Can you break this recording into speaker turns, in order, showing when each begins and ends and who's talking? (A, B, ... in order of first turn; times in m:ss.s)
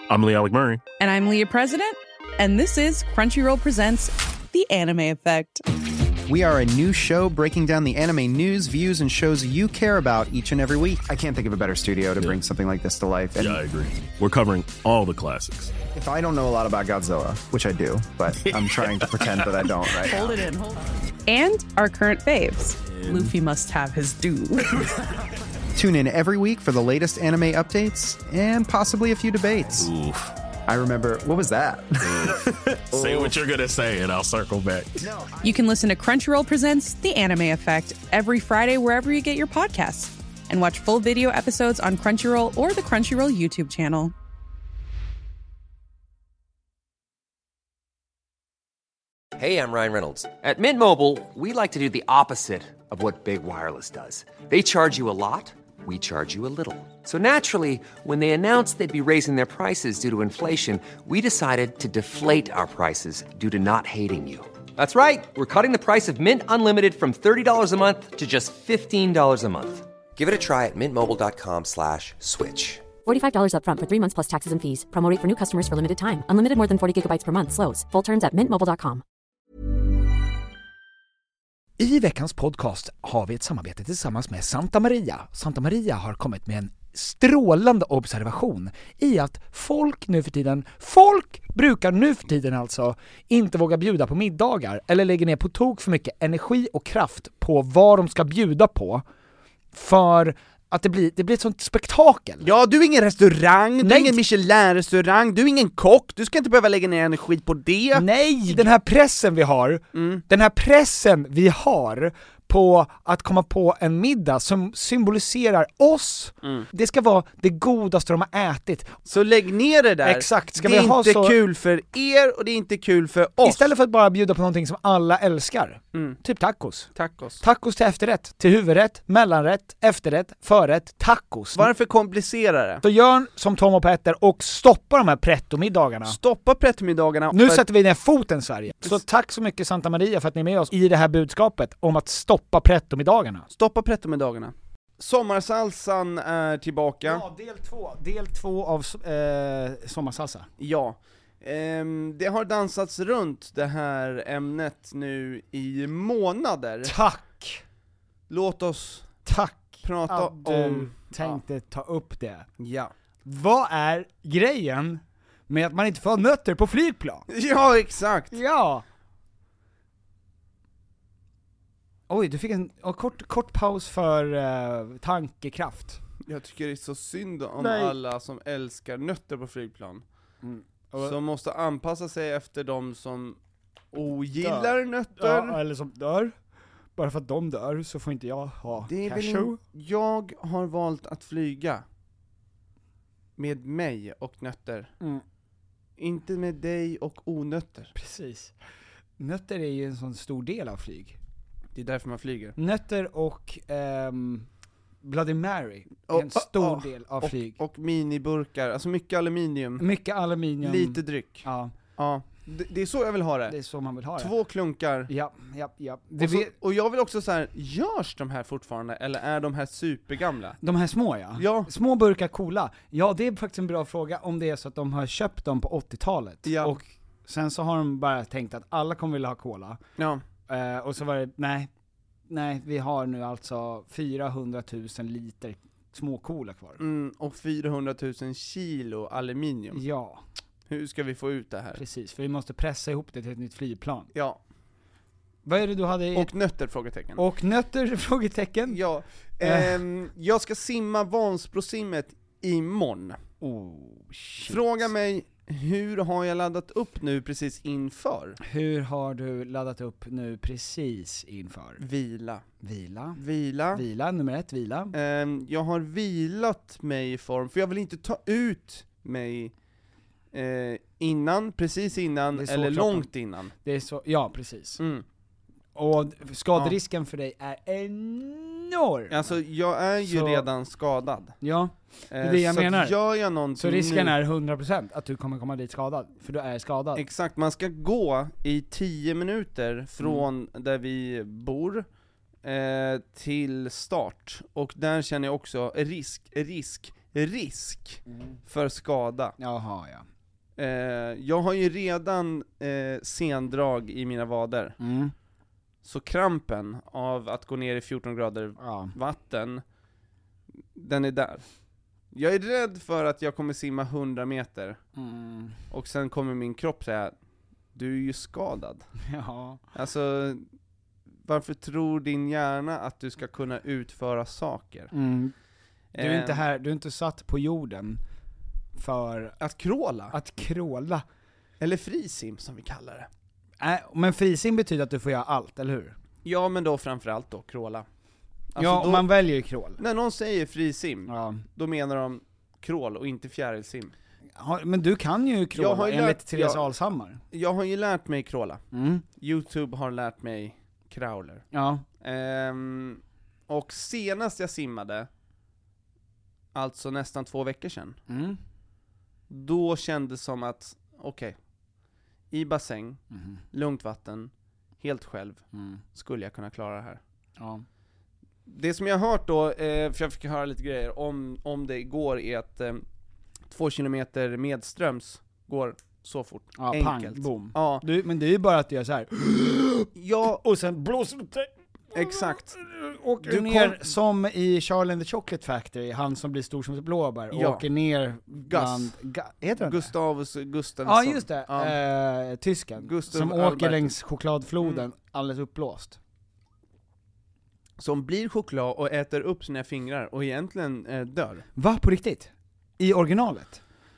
0:01.0-0:05.6 A
0:06.3-0:11.0 B
0:11.1-0:13.6 C
0:13.4-0:15.7 D
0:15.9-0:20.4 C
0:21.2-0:24.9 A
0:25.7-0:29.9 B
0:30.7-0:33.4 C
0:33.0-0:34.9 D
0:35.0-0:35.6 C
0:35.4-0:44.1 A
0:49.4-1:12.9 E
1:13.0-1:19.0 F
1:21.8-1:39.0 G
1:39.7-1:42.5 G
1:42.4-1:48.6 H
1:43.8-1:44.2 G
1:47.9-1:59.0 G
1:49.9-1:50.2 H
1:59.1-2:03.7 H
2:00.0-2:01.4 G
2:03.4-2:11.7 G
2:06.9-2:07.4 H
2:11.5-2:12.8 H
2:12.8-2:16.2 G
2:16.0-2:17.6 H
2:17.3-2:23.4 G
2:23.5-2:27.2 H
2:27.0-2:30.5 G
2:30.6-2:37.0 H
2:36.8-2:37.6 G
2:38.3-2:39.1 H
2:39.2-2:42.5 G
2:39.8-2:41.4 H
2:42.6-2:42.9 H
2:43.2-2:47.3 G
2:47.3-2:48.4 H
2:48.3-2:48.8 G
2:52.1-2:56.0 G
2:56.2-3:00.0 H
2:57.6-2:57.9 G
3:00.4-3:01.2 G
3:01.0-3:03.4 H
3:03.9-3:05.6 H
3:04.4-3:06.3 G
3:07.0-3:09.6 G
3:08.8-3:11.8 H
3:13.4-3:14.9 H
3:16.0-3:17.9 H
3:17.9-3:18.5 G
3:19.2-3:21.2 G
3:21.7-3:22.6 H
3:22.6-3:24.5 G
3:25.0-3:27.6 G
3:26.1-3:29.8 H
3:29.8-3:31.7 G
3:30.6-3:33.6 H
3:33.5-3:34.3 G
3:34.2-3:35.1 H
3:35.1-3:36.5 G
3:36.2-3:40.6 H
3:40.6-3:49.8 G
3:41.4-3:41.7 H
3:46.4-3:46.8 H
3:50.0-3:50.2 H
3:50.5-3:51.7 G
3:52.3-3:56.8 G
3:56.8-3:59.8 H
3:59.7-4:00.2 G
4:00.7-4:01.8 H
4:01.7-4:04.1 G
4:04.1-4:04.4 H
4:05.4-4:06.3 G
4:06.1-4:07.2 H
4:07.2-4:08.8 G
4:08.7-4:13.2 H
4:09.4-4:09.8 G
4:13.4-4:14.9 G
4:14.4-4:18.4 H
4:18.4-4:21.8 G
4:21.8-4:22.4 H
4:22.6-4:23.2 G
4:23.2-4:23.8 H
4:23.7-4:24.9 G
4:24.9-4:29.5 H
4:30.3-4:33.5 H
4:32.3-4:33.1 G
4:33.6-4:34.8 G
4:34.8-4:35.0 H
4:35.8-4:39.4 G
4:39.1-4:41.4 H
4:40.0-4:40.4 G
4:41.4-4:43.0 G
4:42.1-4:44.2 H
4:43.6-4:47.0 G
4:46.9-4:51.8 H
4:52.4-4:59.4 H
4:58.1-4:58.4 G
4:59.4-5:00.0 G
5:00.6-5:04.8 H
5:04.8-5:05.1 G
5:05.8-5:09.6 H
5:08.6-5:08.9 G
5:10.7-5:11.4 H
5:12.1-5:14.8 H
5:15.0-5:15.6 G
5:15.7-5:17.2 H
5:17.7-5:18.8 H
5:19.1-5:19.6 G
5:19.7-5:20.5 H
5:21.2-5:24.9 H
5:24.9-5:25.3 G
5:25.9-5:26.4 H
5:26.0-5:28.0 G
5:28.8-5:29.4 G
5:29.4-5:30.1 H
5:30.1-5:31.0 G
5:31.6-5:33.1 H
5:33.6-5:35.9 G
5:36.2-5:37.8 H
5:38.5-5:39.1 H
5:38.6-5:39.8 G
5:39.8-5:43.9 H
5:41.1-5:41.4 G
5:44.4-5:47.2 G
5:45.5-5:46.7 H
5:47.3-5:48.6 H
5:48.7-5:49.0 G
5:49.2-5:51.4 H
5:51.5-5:51.8 G
5:52.0-5:55.1 H
5:56.5-5:58.0 H
5:58.1-5:58.4 G
5:59.3-6:01.4 H
6:02.3-6:07.0 H
6:03.1-6:03.4 G
6:05.5-6:05.8 G
6:07.4-6:07.6 G
6:08.4-6:12.8 H
6:13.5-6:17.8 H
6:16.6-6:29.9 G
6:19.9-6:20.4 H
6:21.9-6:22.5 H
6:23.2-6:23.8 H
6:27.3-6:27.7 H
6:28.3-6:28.9 H
6:29.6-6:31.8 H
6:30.8-6:36.0 G
6:32.8-6:33.9 H
6:37.8-6:41.4 H
6:41.6-6:43.6 G